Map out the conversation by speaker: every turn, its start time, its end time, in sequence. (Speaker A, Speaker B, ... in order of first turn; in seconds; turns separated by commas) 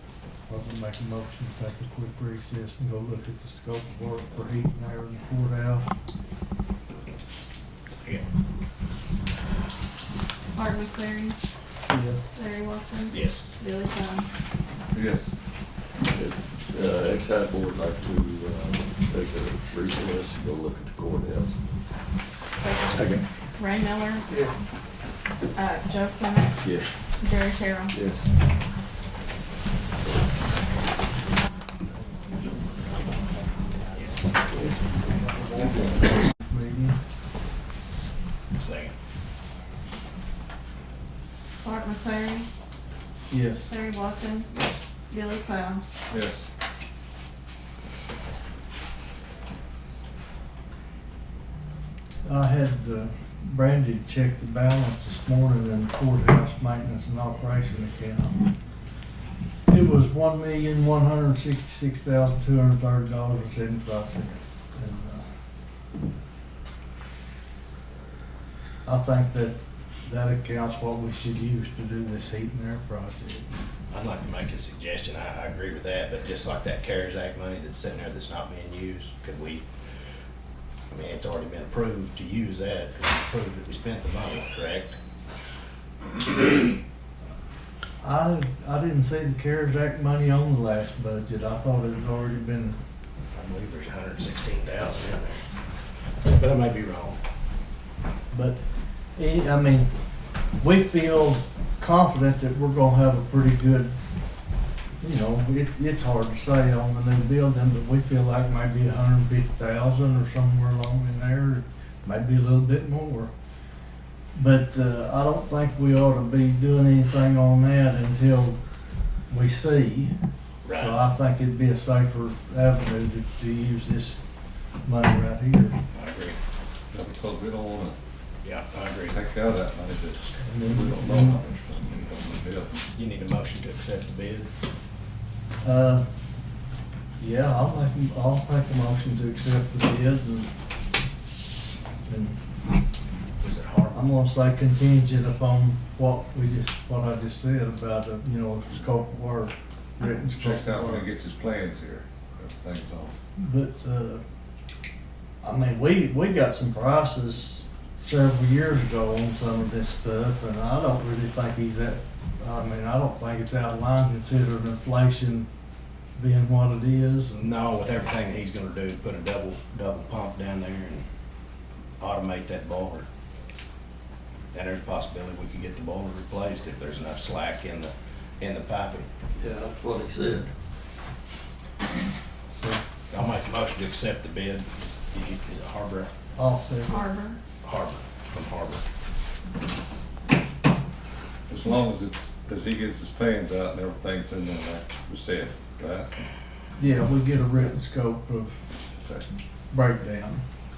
Speaker A: 0.5-5.9, Speaker B: 8.0-8.3, Speaker C: 10.5-11.4, Speaker A: 11.9-12.3, Speaker C: 12.3-14.3, Speaker B: 13.1-13.4, Speaker D: 14.9-15.3, Speaker E: 16.1-21.6, Speaker C: 22.5-24.3, Speaker E: 22.9-23.2, Speaker C: 25.6-26.6, Speaker E: 26.6-26.9, Speaker C: 27.1-27.9, Speaker E: 27.9-28.3, Speaker A: 36.3-37.0, Speaker B: 38.5-38.9, Speaker C: 41.6-42.5, Speaker A: 43.3-43.7, Speaker C: 43.7-44.5, Speaker C: 45.1-45.9, Speaker D: 46.1-46.4, Speaker A: 52.2-58.5, Speaker A: 59.7-65.3, Speaker A: 68.9-73.5, Speaker B: 73.9-79.7, Speaker B: 80.9-85.0, Speaker A: 88.0-92.8, Speaker B: 93.3-95.4, Speaker B: 96.2-97.2, Speaker A: 98.3-98.6, Speaker A: 99.2-99.9, Speaker A: 100.6-104.0, Speaker A: 105.0-113.3, Speaker A: 114.3-118.6, Speaker A: 119.3-120.2, Speaker B: 120.6-121.0, Speaker A: 120.7-124.2, Speaker A: 124.8-125.8, Speaker B: 125.9-126.4, Speaker D: 126.9-128.0, Speaker B: 128.4-129.2, Speaker D: 129.1-132.8, Speaker A: 130.4-131.4, Speaker B: 132.9-134.5, Speaker A: 135.6-136.1, Speaker A: 137.2-140.5, Speaker A: 142.1-142.4, Speaker B: 143.4-144.0, Speaker A: 143.9-151.1, Speaker D: 150.3-153.2, Speaker A: 153.4-154.2, Speaker A: 155.4-165.5, Speaker A: 166.2-167.4, Speaker B: 167.4-171.1, Speaker B: 172.0-173.1, Speaker B: 174.5-179.1, Speaker E: 179.4-180.5, Speaker A: 182.5-182.8, Speaker B: 183.1-186.1, Speaker A: 186.3-187.1, Speaker C: 186.9-187.4, Speaker B: 187.6-188.8, Speaker D: 191.5-196.1, Speaker A: 196.8-198.6, Speaker A: 199.7-200.4